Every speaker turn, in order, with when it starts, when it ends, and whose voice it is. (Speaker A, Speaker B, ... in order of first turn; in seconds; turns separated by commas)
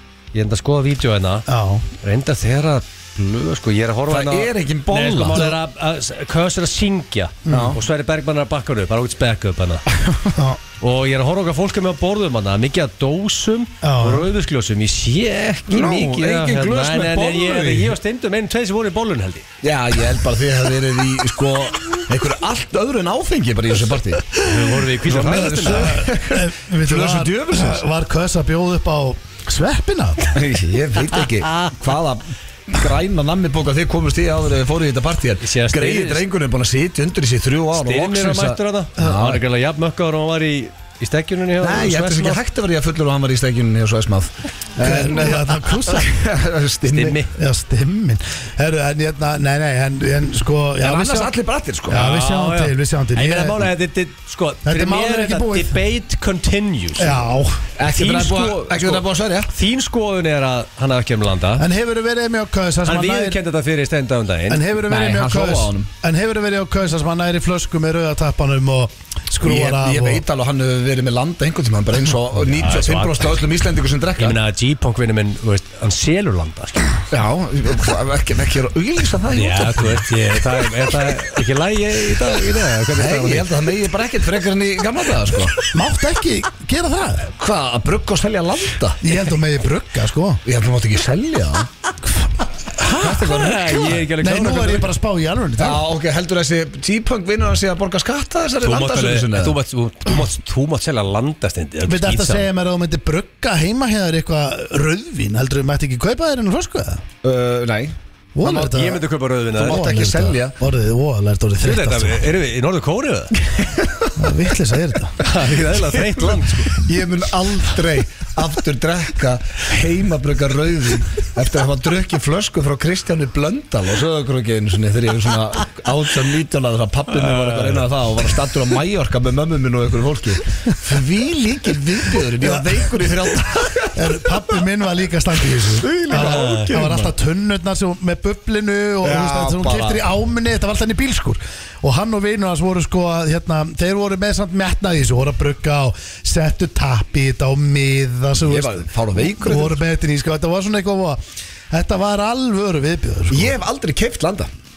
Speaker A: 0.3-1.4, Speaker B: 1.5-1.8, Speaker A: 2.0-9.8, Speaker C: 4.1-5.5, Speaker B: 7.4-7.8, Speaker C: 7.5-7.8, Speaker B: 10.3-10.6, Speaker A: 10.8-19.4, Speaker B: 13.8-14.3, Speaker C: 15.7-17.9, Speaker C: 19.6-27.8, Speaker A: 24.4-26.0, Speaker B: 25.6-30.3, Speaker C: 30.3-39.4, Speaker A: 35.4-36.2, Speaker A: 37.7-42.4, Speaker C: 41.6-47.2, Speaker B: 44.8-46.1, Speaker A: 46.9-47.3, Speaker B: 47.3-51.3, Speaker C: 50.8-52.0, Speaker B: 51.9-53.7, Speaker A: 51.9-57.2, Speaker B: 54.6-55.8, Speaker B: 57.0-57.7, Speaker C: 57.8-59.5, Speaker A: 57.8-61.6, Speaker B: 61.6-63.4, Speaker A: 62.9-64.6, Speaker B: 64.5-70.2, Speaker C: 64.9-65.9, Speaker C: 69.4-74.4, Speaker A: 72.5-73.3, Speaker A: 74.2-76.9, Speaker C: 77.1-80.1, Speaker A: 79.3-83.5, Speaker C: 82.9-85.6, Speaker B: 85.7-87.3, Speaker C: 87.4-89.0, Speaker B: 89.0-90.4, Speaker C: 90.4-91.7, Speaker B: 92.8-93.1, Speaker C: 92.8-94.0, Speaker A: 92.9-94.9, Speaker B: 94.2-95.8, Speaker C: 95.6-99.6, Speaker A: 98.6-102.5, Speaker B: 101.8-107.0, Speaker C: 107.2-107.9, Speaker B: 108.3-112.3, Speaker A: 108.4-109.9, Speaker C: 109.5-110.5, Speaker A: 111.6-113.3, Speaker B: 114.2-115.2, Speaker A: 115.2-116.8, Speaker C: 116.1-134.6, Speaker A: 127.1-127.8, Speaker B: 132.4-133.1, Speaker B: 133.9-153.6, Speaker C: 135.6-137.1, Speaker A: 136.1-136.7, Speaker C: 139.0-140.0, Speaker C: 148.4-149.8, Speaker C: 153.3-154.5